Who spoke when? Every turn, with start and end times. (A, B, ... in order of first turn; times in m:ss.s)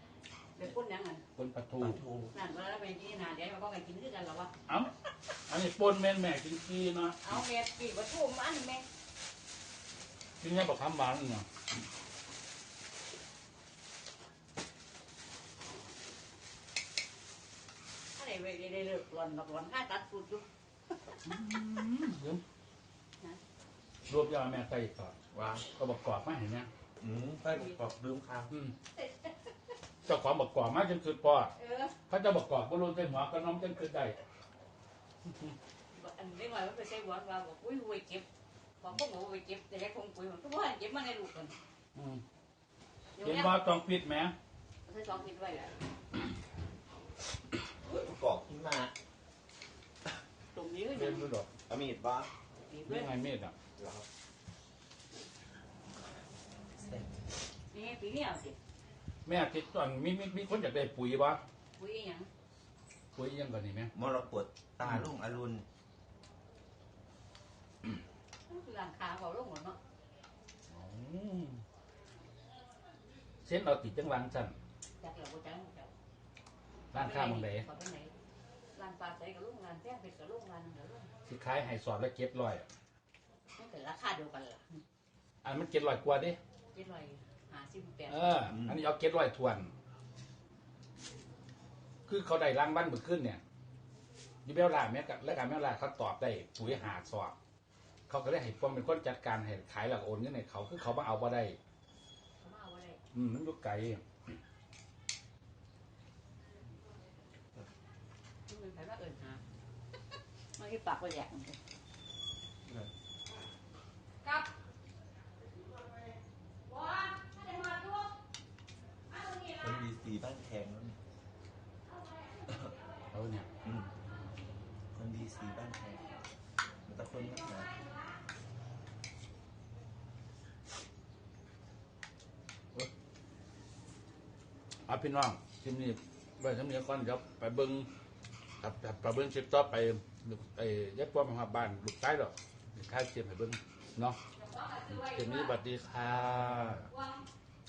0:00.6-0:01.2 A
0:01.4-0:02.0 B
0:01.8-0:02.4 C
0:02.3-0:04.5 A
0:05.5-0:07.2 B
0:07.2-0:08.9 A
0:10.4-0:11.5 B
0:18.2-0:20.4 A
0:21.2-0:22.4 B
0:24.1-0:25.2 B
0:25.3-0:25.7 C
0:25.8-0:26.7 B
0:27.0-0:28.5 C
0:28.5-0:28.8 B
0:28.9-0:29.5 A
0:30.1-0:31.5 B
0:31.6-0:32.0 A
0:32.1-0:34.2 B
0:35.3-0:35.6 B
0:35.9-0:38.2 A
0:38.8-0:41.6 A
0:42.0-0:42.2 B
0:43.2-0:43.5 A
0:43.2-0:44.3 B
0:44.8-0:45.8 A
0:47.9-0:48.9 C
0:50.5-0:51.3 A
0:50.9-0:51.5 B
0:51.7-0:52.3 C
0:52.7-0:53.1 A
0:52.9-0:53.6 B
0:53.8-0:54.0 C
0:56.8-0:57.2 C
0:57.7-0:58.6 A
0:59.3-1:01.4 B
1:01.8-1:02.3 A
1:03.2-1:03.9 B
1:03.9-1:05.6 C
1:08.5-1:09.8 A
1:10.7-1:11.6 B
1:13.4-1:14.6 B
1:15.0-1:15.9 A
1:16.9-1:17.6 B
1:16.9-1:18.1 A
1:18.7-1:21.1 A
1:21.3-1:22.7 B
1:23.6-1:24.8 A
1:25.4-1:26.4 B
1:26.7-1:28.4 A
1:28.1-1:29.7 B
1:28.5-1:28.8 C
1:32.1-1:33.4 B
1:34.4-1:37.4 B
1:38.1-1:41.6 B
1:42.4-1:43.0 A
1:43.1-1:44.0 B
1:48.5-1:49.4 A
1:50.6-1:51.6 A
1:52.6-1:52.9 C
1:54.2-1:54.5 A
1:56.6-1:58.1 A
1:59.1-1:59.7 A
1:59.6-2:01.0 C
2:01.9-2:02.7 A
2:03.1-2:03.5 B
2:03.6-2:03.9 C
2:04.9-2:06.1 C
2:06.9-2:07.7 C
2:07.5-2:07.8 A
2:14.9-2:17.9 B
2:18.6-2:24.2 B
2:24.3-2:25.6 A
2:24.9-2:26.9 B
2:26.9-2:27.2 A